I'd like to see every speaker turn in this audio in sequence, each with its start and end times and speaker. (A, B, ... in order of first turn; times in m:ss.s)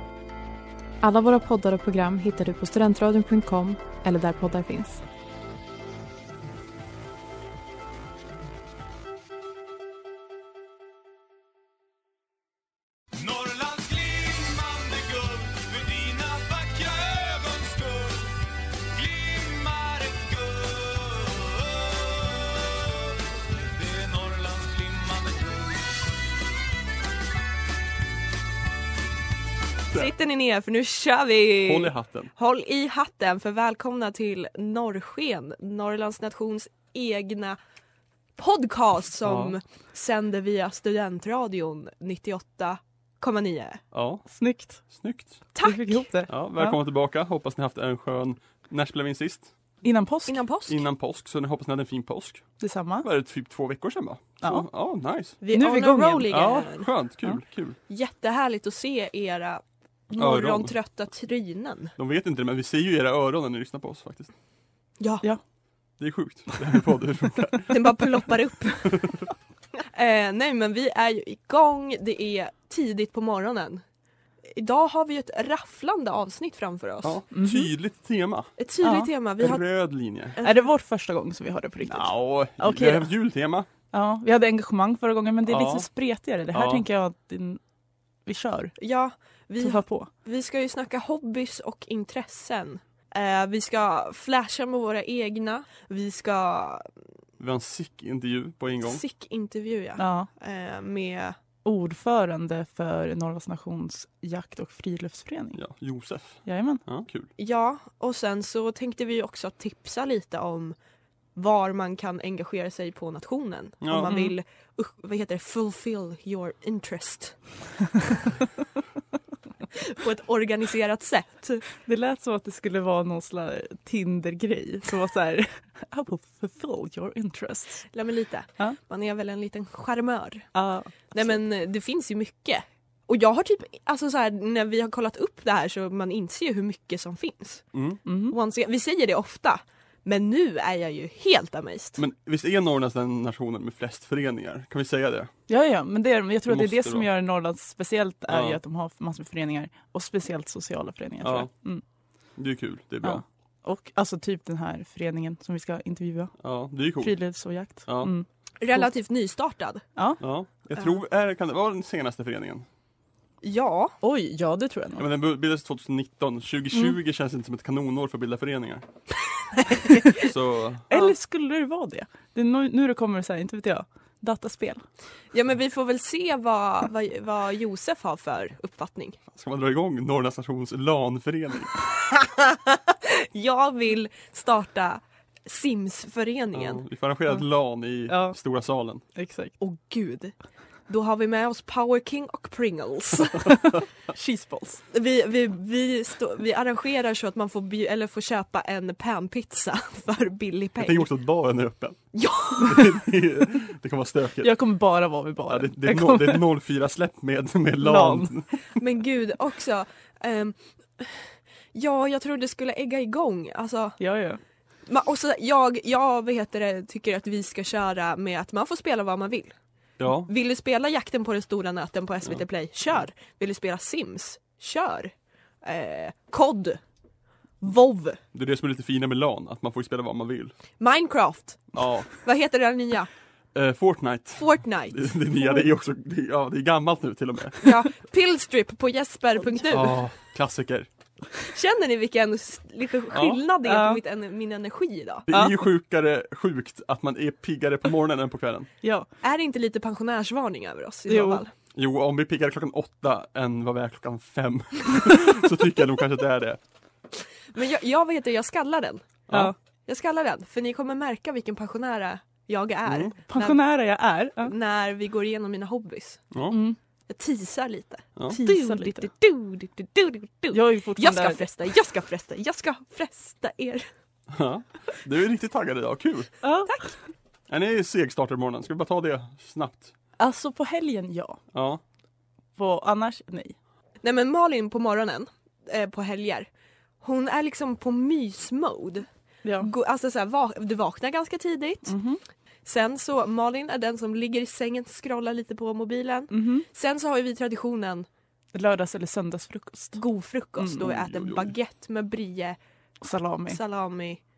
0:01.0-0:05.0 A
0:13.2-0:22.6 B
0:23.7-0:26.0 B
0:29.9-0:37.6 C
0:31.6-0:32.3 D
0:38.4-0:43.8 C
0:39.2-0:39.6 D
0:43.9-0:44.3 D
0:44.3-0:44.8 E
0:44.8-0:45.5 D
0:45.5-0:46.1 C
0:45.6-0:46.8 E
0:46.3-0:49.5 D
0:49.8-0:50.4 E
0:50.3-0:50.8 C
0:50.7-0:55.4 D
0:52.6-0:53.1 E
0:55.4-0:56.9 C
0:55.5-0:56.3 E
0:56.3-0:57.8 D
0:57.9-1:01.9 C
1:00.2-1:00.7 D
1:02.0-1:04.3 D
1:05.0-1:05.2 C
1:06.0-1:07.8 D
1:07.7-1:09.2 C
1:08.9-1:09.2 D
1:09.9-1:13.8 C
1:14.5-1:17.2 C
1:17.0-1:18.5 D
1:17.3-1:17.7 E
1:18.6-1:19.6 C
1:18.8-1:19.1 E
1:19.4-1:20.4 D
1:20.4-1:20.6 C
1:20.4-1:23.1 E
1:21.9-1:23.7 D
1:23.9-1:27.6 E
1:25.5-1:25.9 D
1:26.5-1:26.8 D
1:28.3-1:28.8 E
1:28.8-1:36.9 C
1:29.6-1:30.1 E
1:37.4-1:39.0 D
1:38.8-1:41.4 C
1:40.0-1:40.3 E
1:41.6-1:45.6 E
1:45.6-1:47.3 D
1:46.4-1:46.8 E
1:47.4-1:50.8 C
1:51.4-1:57.6 C
1:53.8-1:54.2 D
1:53.9-1:54.3 E
1:59.9-2:01.6 C
2:01.8-2:07.9 E
2:07.9-2:10.5 C
2:10.5-2:11.3 E
2:11.1-2:17.7 C
2:17.7-2:18.0 D
2:18.0-2:18.4 E
2:18.3-2:22.0 C
2:22.0-2:25.3 D
2:25.5-2:31.8 E
2:26.5-2:27.1 D
2:28.3-2:28.6 D
2:31.2-2:31.5 D
2:32.4-2:33.2 D
2:33.0-2:36.4 E
2:36.4-2:38.1 D
2:37.0-2:38.9 E
2:38.6-2:39.9 C
2:40.2-2:42.6 D
2:43.4-2:44.0 C
2:44.0-2:45.0 E
2:45.0-2:48.9 D
2:49.9-2:50.3 E
2:50.2-2:50.9 D
2:50.9-2:54.9 E
2:55.3-2:59.2 C
2:59.3-3:01.8 D
3:02.0-3:06.8 C
3:06.5-3:09.0 D
3:08.1-3:08.4 E
3:09.2-3:09.5 E
3:09.6-3:10.3 C
3:10.9-3:13.6 C
3:14.1-3:14.8 E
3:14.9-3:21.1 C
3:20.8-3:24.5 D
3:22.1-3:23.0 C
3:24.4-3:26.4 E
3:25.5-3:28.7 D
3:27.8-3:28.4 E
3:28.7-3:34.0 C
3:34.0-3:34.4 E
3:34.9-3:39.6 C
3:40.0-3:40.3 D
3:40.3-3:46.8 C
3:47.6-3:48.2 C
3:48.3-3:50.5 D
3:50.8-3:53.1 C
3:51.7-3:52.2 D
3:53.6-3:57.8 D
3:54.4-3:55.1 C
3:57.6-4:00.0 C
3:59.7-4:00.9 D
4:01.5-4:05.3 C
4:03.1-4:03.4 D
4:03.6-4:04.0 E
4:05.3-4:08.7 D
4:05.3-4:05.6 E
4:09.2-4:11.5 C
4:11.1-4:11.4 E
4:11.8-4:16.6 D
4:17.5-4:19.1 C
4:19.3-4:19.5 D
4:19.3-4:19.6 E
4:19.9-4:23.6 C
4:22.9-4:23.2 D
4:23.3-4:24.5 E
4:24.4-4:26.2 C
4:26.3-4:26.6 D
4:26.5-4:26.8 E
4:27.1-4:33.9 C
4:28.4-4:29.1 E
4:30.5-4:31.5 E
4:34.3-4:36.4 D
4:36.4-4:36.9 E
4:37.5-4:39.9 D
4:40.2-4:41.4 E
4:41.5-4:41.8 D
4:42.6-4:43.6 E
4:44.0-4:46.5 C
4:47.0-4:49.1 C
4:49.4-4:49.7 E
4:49.6-4:52.0 C
4:51.9-4:52.2 E
4:52.6-4:58.1 C
4:56.3-4:56.7 E
4:58.5-5:00.0 E
5:00.0-5:02.6 C
5:00.6-5:00.9 E
5:00.8-5:01.5 D
5:03.0-5:03.6 E
5:03.5-5:04.2 C